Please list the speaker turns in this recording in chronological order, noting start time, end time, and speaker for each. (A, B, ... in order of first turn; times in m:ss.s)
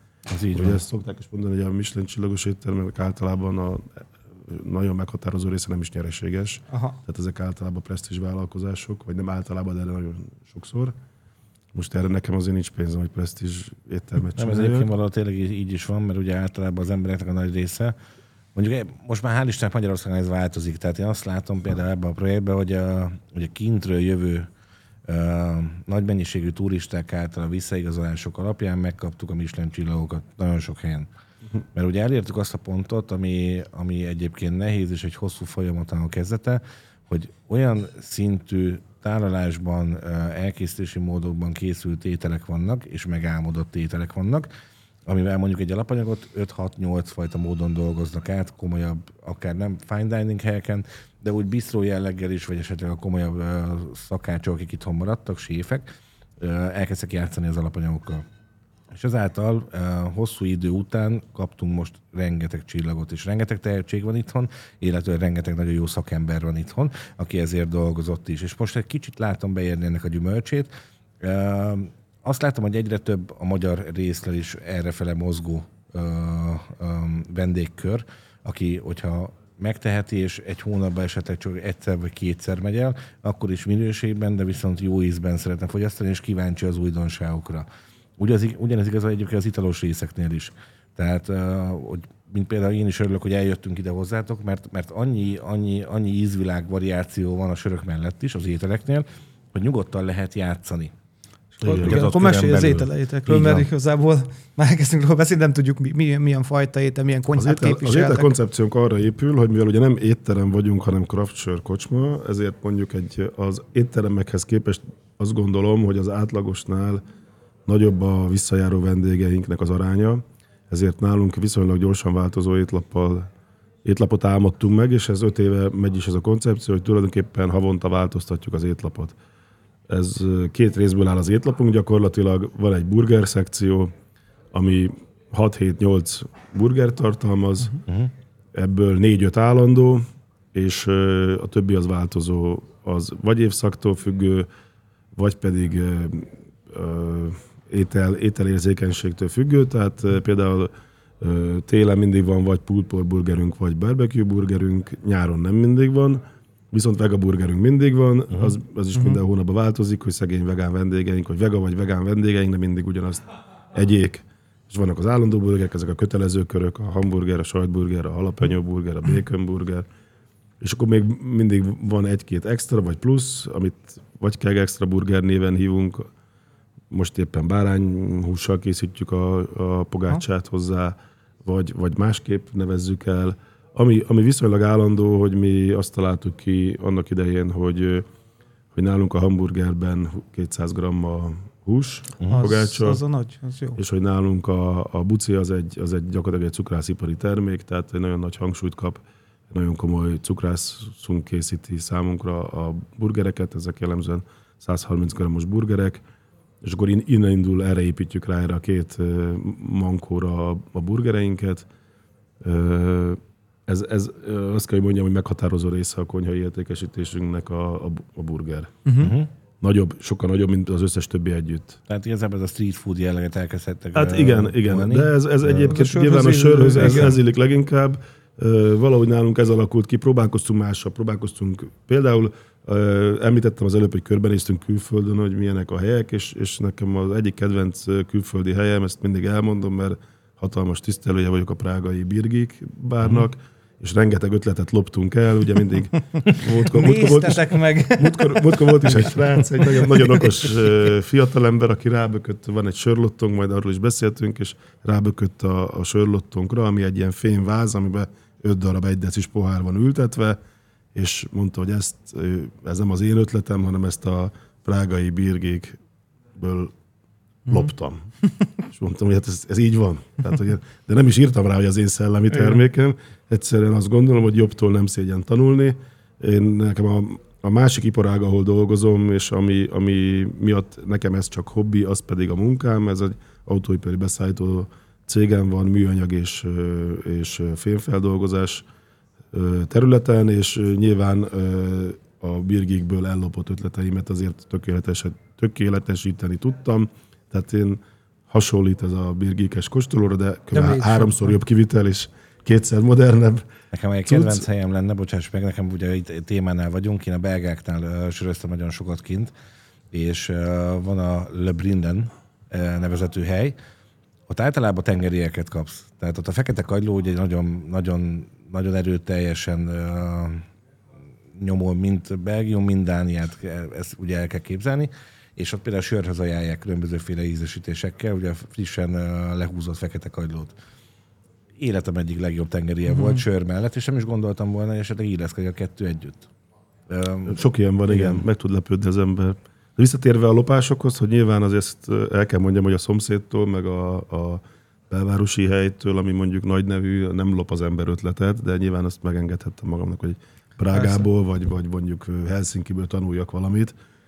0:00.3-0:00.8 A
0:00.5-0:11.0 B
0:06.7-0:07.0 C
0:11.7-0:14.9 B
0:14.4-0:18.0 A
0:18.6-0:24.5 A
0:25.1-0:31.1 A
0:31.8-0:44.5 A
0:45.1-0:58.2 A
0:58.9-1:10.7 A
1:11.2-1:27.7 A
1:28.2-1:40.9 A
1:41.6-1:42.0 B
1:41.6-1:48.3 C
1:41.7-1:43.7 A
1:47.3-1:57.0 B
1:57.7-2:03.3 B
2:03.8-2:09.2 B
2:09.9-2:13.9 B
2:14.5-2:17.8 B
2:17.9-2:18.1 A
2:18.5-2:24.5 B
2:25.2-2:49.9 B
2:39.0-2:39.2 C
2:50.6-2:56.1 B
2:56.9-3:08.0 B
3:08.8-3:13.0 B
3:12.2-3:12.4 A
3:12.3-3:13.8 C
3:13.8-3:26.0 B
3:26.6-3:31.7 B
3:32.4-3:38.7 B
3:38.8-3:39.1 C
3:39.0-3:39.3 A
3:39.6-3:41.8 B
3:41.9-3:45.7 A
3:43.9-4:20.4 B
3:45.6-3:47.2 C
4:06.6-4:10.1 C
4:20.9-4:25.8 B
4:26.4-4:26.7 B
4:27.5-4:28.1 B
4:28.7-4:48.7 B
4:32.3-4:32.6 C
4:49.3-5:03.5 B
5:00.5-5:01.3 C
5:03.7-5:09.3 A
5:04.1-5:04.5 B
5:09.9-5:13.6 A
5:14.3-5:20.5 A
5:21.4-5:30.6 A
5:31.6-5:36.3 A
5:32.9-5:33.2 C
5:36.9-5:38.2 A
5:37.3-5:53.8 B